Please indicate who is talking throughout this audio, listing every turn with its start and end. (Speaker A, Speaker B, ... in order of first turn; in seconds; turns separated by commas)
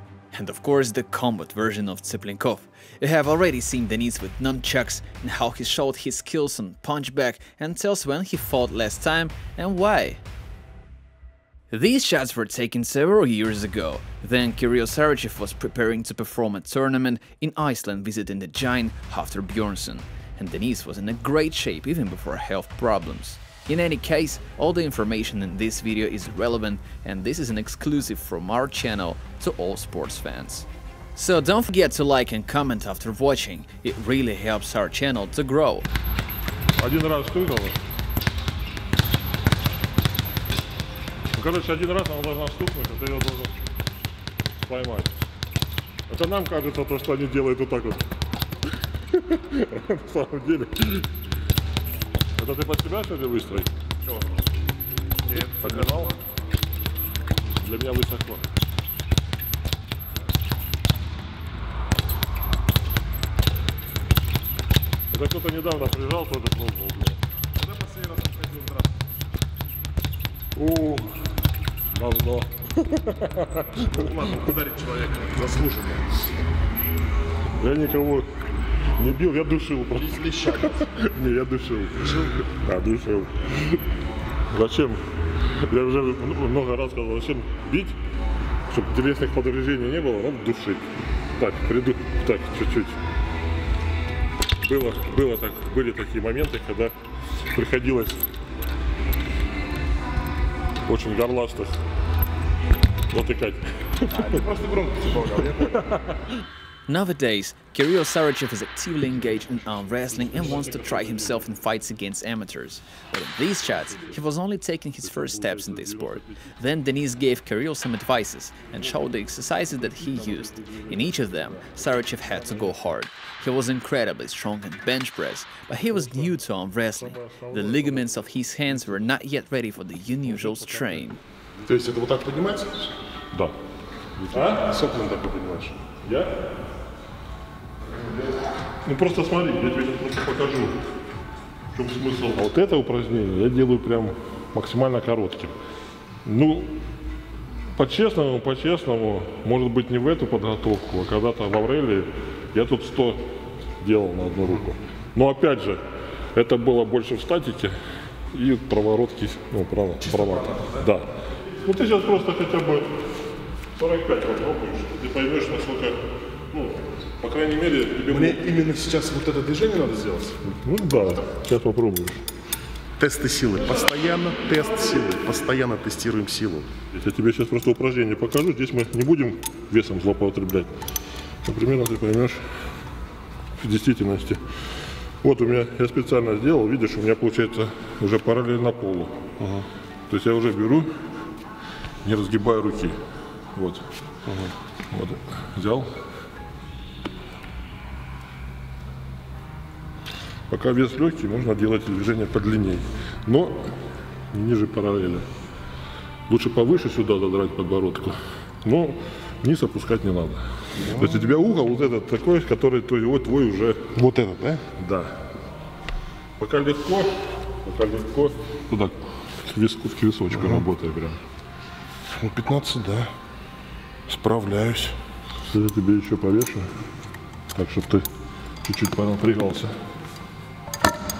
Speaker A: 0.3-10.2, Speaker A: 11.7-35.9, Speaker B: 36.8-37.8, Speaker B: 41.3-43.6, Speaker B: 44.6-45.1, Speaker B: 46.1-48.1, Speaker B: 49.1-51.1, Speaker B: 52.4-53.7, Speaker B: 55.3-56.1, Speaker B: 57.6-58.5, Speaker B: 65.1-67.2, Speaker C: 67.6-68.9, Speaker B: 70.5-71.2, Speaker B: 71.9-74.2, Speaker C: 73.9-76.3, Speaker B: 77.5-78.2, Speaker B: 79.0-83.8, Speaker C: 80.0-80.9, Speaker C: 82.0-82.3, Speaker B: 84.5-85.0, Speaker B: 85.5-88.0, Speaker B: 88.7-93.0, Speaker B: 94.6-96.9, Speaker B: 97.5-98.2, Speaker B: 100.8-101.8, Speaker B: 103.1-104.4, Speaker C: 104.1-105.9, Speaker B: 105.6-106.3, Speaker A: 106.9-131.2, Speaker B: 109.9-111.5, Speaker B: 115.0-116.4, Speaker B: 119.8-122.8, Speaker B: 125.9-126.3, Speaker B: 127.0-129.1, Speaker B: 130.2-131.1, Speaker C: 131.6-132.9, Speaker B: 134.2-134.7, Speaker C: 134.3-135.8, Speaker B: 136.0-136.3, Speaker B: 138.8-140.8, Speaker B: 141.7-145.5, Speaker B: 146.2-146.7, Speaker B: 147.7-153.2, Speaker B: 153.8-155.8, Speaker B: 156.3-157.7, Speaker B: 158.3-161.1, Speaker B: 161.6-162.9, Speaker B: 163.8-166.0, Speaker B: 166.5-168.4, Speaker C: 168.1-170.4, Speaker B: 170.4-172.2, Speaker C: 173.0-176.7, Speaker B: 176.9-180.7, Speaker B: 181.4-182.4, Speaker B: 183.6-184.4, Speaker B: 185.2-189.2, Speaker C: 189.4-189.7, Speaker B: 190.1-190.9, Speaker B: 192.0-193.0, Speaker B: 193.5-193.8, Speaker B: 194.9-195.9, Speaker B: 200.5-203.7, Speaker B: 204.3-205.3, Speaker B: 206.3-213.9, Speaker C: 210.8-211.3, Speaker C: 213.9-214.6, Speaker B: 214.8-215.1, Speaker B: 216.4-221.2, Speaker C: 220.3-220.7, Speaker C: 222.1-223.1, Speaker C: 224.1-224.9, Speaker B: 225.4-226.7, Speaker B: 227.5-228.1, Speaker B: 228.6-229.7